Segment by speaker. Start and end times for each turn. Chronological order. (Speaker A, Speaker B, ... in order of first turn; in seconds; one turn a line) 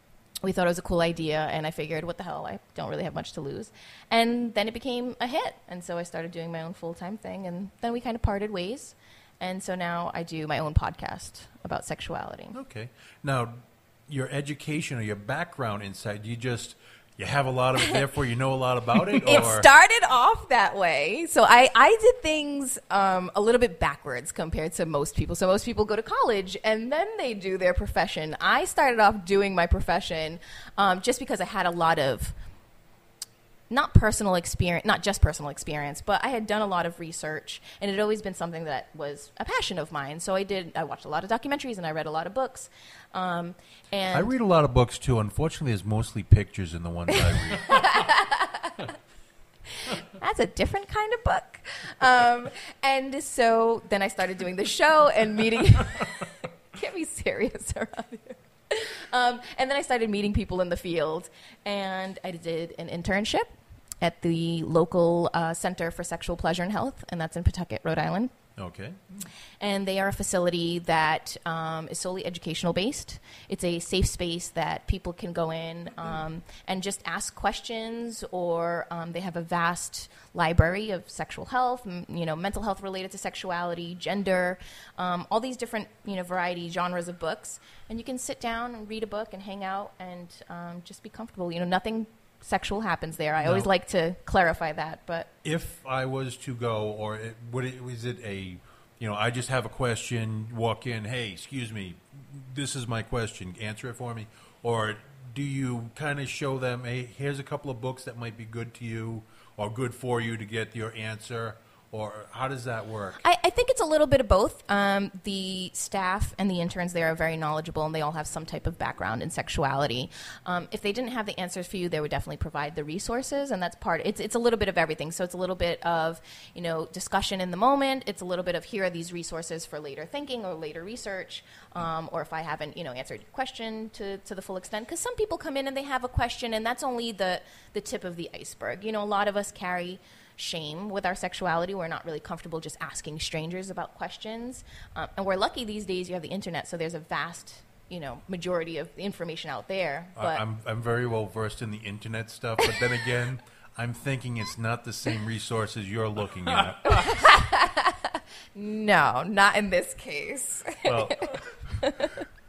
Speaker A: 0.4-12.6
Speaker B: 12.5-19.7
Speaker A: 19.1-32.4
Speaker A: 33.7-44.3
Speaker B: 44.1-47.8
Speaker A: 47.1-48.9
Speaker A: 49.8-68.3
Speaker B: 68.6-69.0
Speaker A: 69.6-95.3
Speaker B: 93.4-93.7
Speaker B: 95.4-113.2
Speaker A: 113.2-150.4
Speaker B: 150.2-157.1
Speaker A: 156.9-162.2
Speaker B: 160.9-161.8